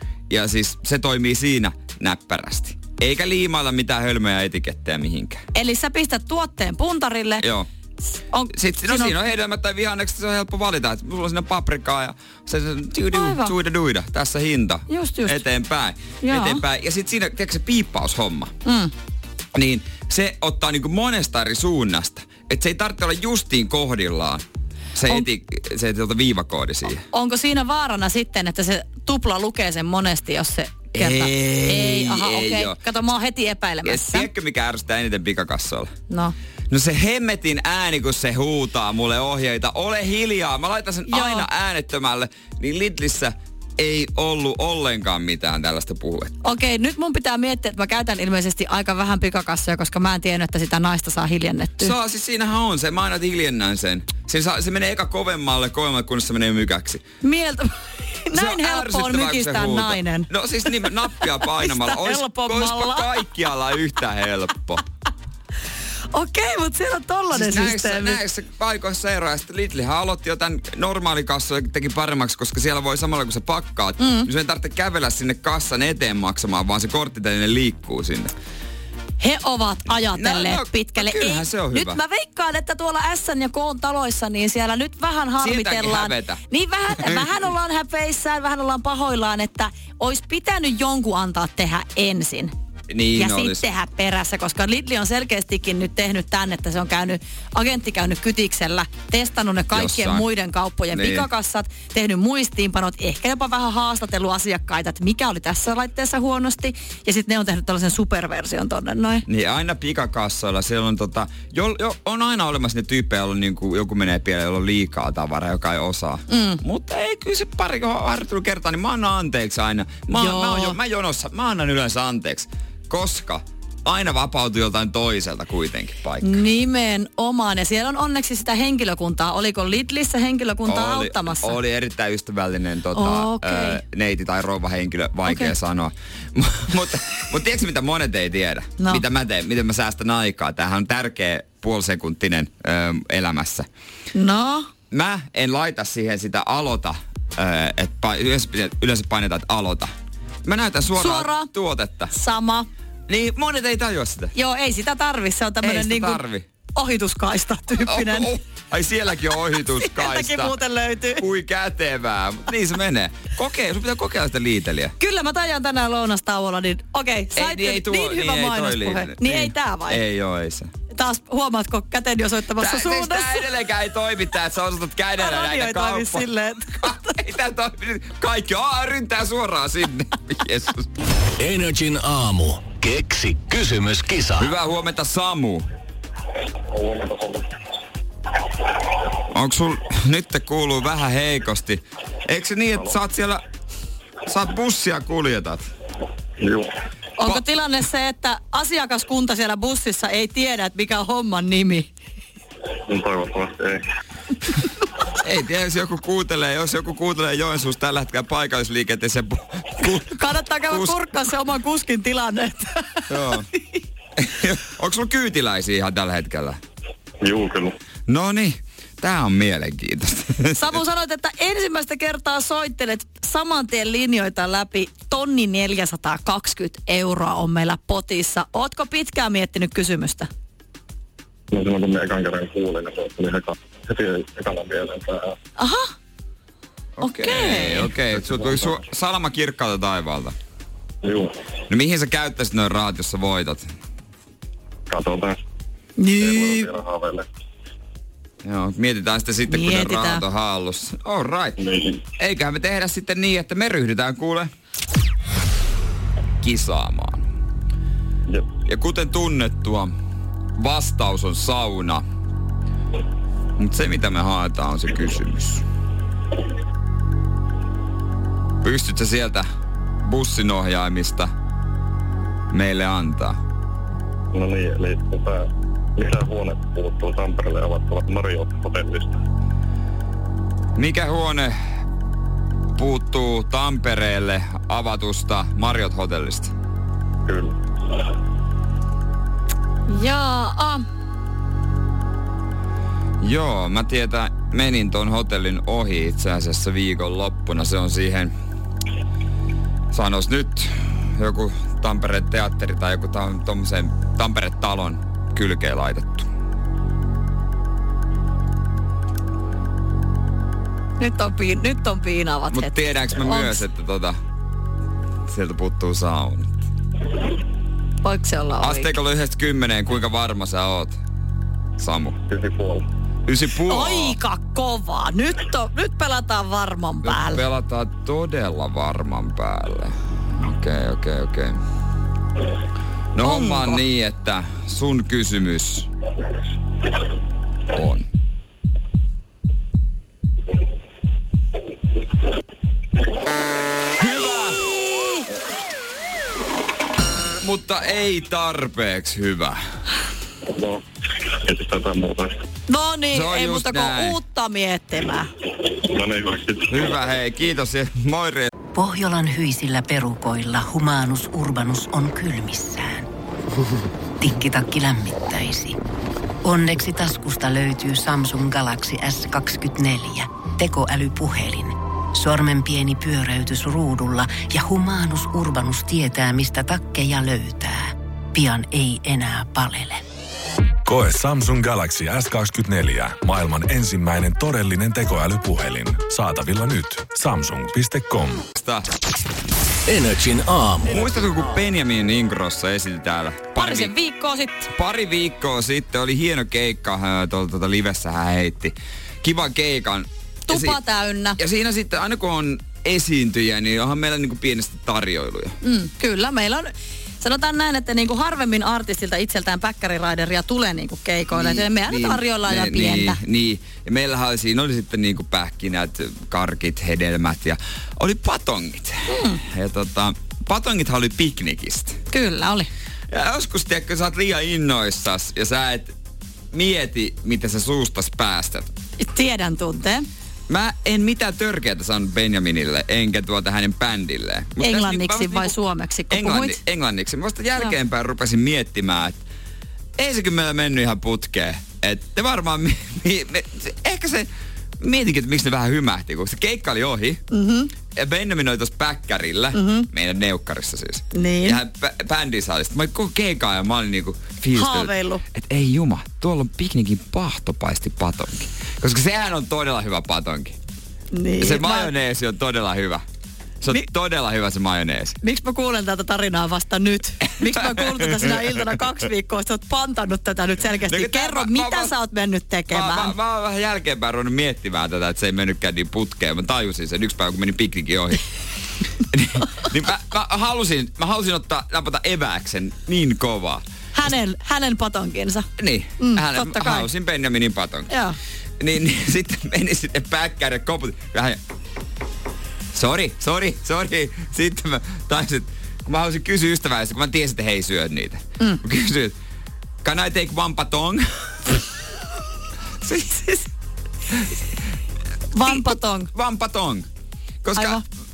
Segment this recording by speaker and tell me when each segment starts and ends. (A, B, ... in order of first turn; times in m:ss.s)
0:00.3-0:05.4 A
0:05.5-0:07.4 B
0:07.4-0:07.7 A
0:08.3-0:09.2 B
0:08.5-0:18.5 A
0:13.1-0:13.5 B
0:14.9-0:15.4 B
0:16.2-0:16.6 B
0:18.6-0:18.9 B
0:19.6-0:24.4 A
0:25.0-0:27.0 A
0:27.1-0:34.3 B
0:30.9-0:32.8 A
0:33.8-0:35.9 A
0:36.1-0:36.4 B
0:36.7-0:46.3 A
0:41.1-0:41.5 B
0:46.4-0:51.9 B
0:51.8-0:57.0 A
0:57.2-1:00.9 B
0:58.3-1:04.8 A
1:01.5-1:03.1 B
1:06.1-1:08.2 B
1:07.3-1:18.3 A
1:14.0-1:14.3 B
1:19.2-1:32.5 B
1:20.2-1:22.0 A
1:25.4-1:26.4 A
1:27.0-1:27.3 A
1:32.9-1:33.6 A
1:33.2-1:49.2 B
1:39.7-1:40.2 A
1:40.9-1:41.3 A
1:49.3-2:06.4 A
1:56.3-1:56.6 B
2:00.1-2:00.8 B
2:06.2-2:11.6 B
2:10.7-2:23.7 A
2:13.0-2:13.8 B
2:15.3-2:15.5 B
2:24.1-2:24.7 B
2:24.9-2:29.9 A
2:30.4-2:32.1 A
2:31.0-2:31.5 B
2:32.1-2:32.7 B
2:33.1-2:34.3 A
2:34.3-2:36.2 B
2:35.6-2:36.5 A
2:36.8-2:38.3 B
2:37.8-2:40.6 A
2:39.8-2:41.2 B
2:41.2-2:44.9 A
2:45.0-2:50.0 B
2:47.4-2:50.7 A
2:50.9-2:53.4 B
2:52.6-2:56.3 A
2:55.2-2:57.2 B
2:56.8-3:00.9 A
3:01.4-3:04.5 C
3:04.4-3:05.7 A
3:06.7-3:07.5 D
3:09.3-3:13.4 A
3:14.3-3:15.7 A
3:16.4-3:16.7 D
3:17.2-3:21.9 B
3:22.9-3:23.8 D
3:25.2-3:31.0 A
3:29.8-3:33.6 B
3:33.1-3:33.5 A
3:34.2-3:36.6 A
3:37.2-3:37.7 D
3:38.1-3:40.8 A
3:40.6-3:50.3 B
3:51.5-3:55.4 D
3:55.6-3:55.9 B
3:57.0-4:00.4 A
3:57.0-3:57.9 B
3:58.2-3:58.7 D
4:01.0-4:01.4 D
4:01.7-4:03.7 A
4:04.9-4:05.4 D
4:06.0-4:06.7 B
4:06.2-4:07.3 D
4:08.4-4:11.6 A
4:09.5-4:10.2 B
4:11.6-4:12.0 D
4:12.2-4:14.5 A
4:16.4-4:17.2 A
4:18.7-4:19.9 A
4:20.6-4:22.0 A
4:23.6-4:25.6 A
4:28.6-4:29.5 A
4:30.0-4:31.3 A
4:32.5-4:33.4 A
4:34.3-4:39.2 D
4:40.8-4:41.6 A
4:42.8-4:46.5 A
4:47.3-4:47.6 D
4:49.9-4:50.8 B
4:53.2-4:58.3 A
4:59.9-5:06.3 A
5:11.0-5:13.6 B
5:12.5-5:14.2 A
5:15.3-5:16.5 A
5:18.0-5:18.9 B
5:18.6-5:21.0 A
5:21.8-5:22.2 A
5:22.3-5:22.9 D
5:23.3-5:24.2 A
5:23.7-5:27.4 B
5:27.0-5:31.6 A
5:33.2-5:35.9 A
5:33.2-5:33.8 B
5:37.7-5:38.1 A
5:44.0-5:44.6 A
5:44.9-5:45.2 B
5:47.4-5:49.6 A
5:50.5-5:52.3 D
5:52.7-5:55.3 B
5:53.1-5:54.2 A
5:55.7-5:56.9 D
5:56.7-5:58.5 A
5:58.8-6:03.1 E
6:04.2-6:05.8 E
6:06.4-6:20.0 E
6:20.9-6:28.4 F
6:28.6-6:28.9 A
6:29.9-6:31.4 C
6:30.9-6:33.9 A
6:33.6-6:34.7 B
6:34.7-6:40.8 A
6:40.5-6:41.4 B
6:41.4-6:45.6 A
6:45.6-6:53.2 B
6:51.3-7:02.0 A
6:59.1-6:59.4 B
7:02.1-7:02.7 B
7:03.1-7:05.9 A
7:06.5-7:08.7 A
7:09.0-7:10.1 B
7:10.5-7:15.6 A
7:14.6-7:16.6 B
7:16.1-7:19.2 A
7:20.0-7:24.3 A
7:24.8-7:27.2 A
7:27.3-7:27.7 B
7:27.9-7:40.6 A
7:29.5-7:29.9 B
7:31.1-7:31.6 B
7:34.5-7:35.2 B
7:41.1-7:41.9 B
7:41.4-7:43.0 A
7:43.6-7:45.2 A
7:45.2-7:53.1 B
7:47.4-7:48.6 A
7:50.9-7:51.9 A
7:52.7-7:58.2 A
7:59.1-8:03.6 A
8:04.0-8:05.5 B
8:05.6-8:07.9 A
8:06.0-8:06.9 B
8:07.9-8:08.2 B
8:08.6-8:11.4 A
8:12.7-8:19.1 A
8:19.8-8:21.0 A
8:22.8-8:23.2 A
8:22.9-8:23.4 B
8:25.3-8:26.1 B
8:25.5-8:26.9 A
8:27.4-8:27.8 A
8:27.6-8:27.8 B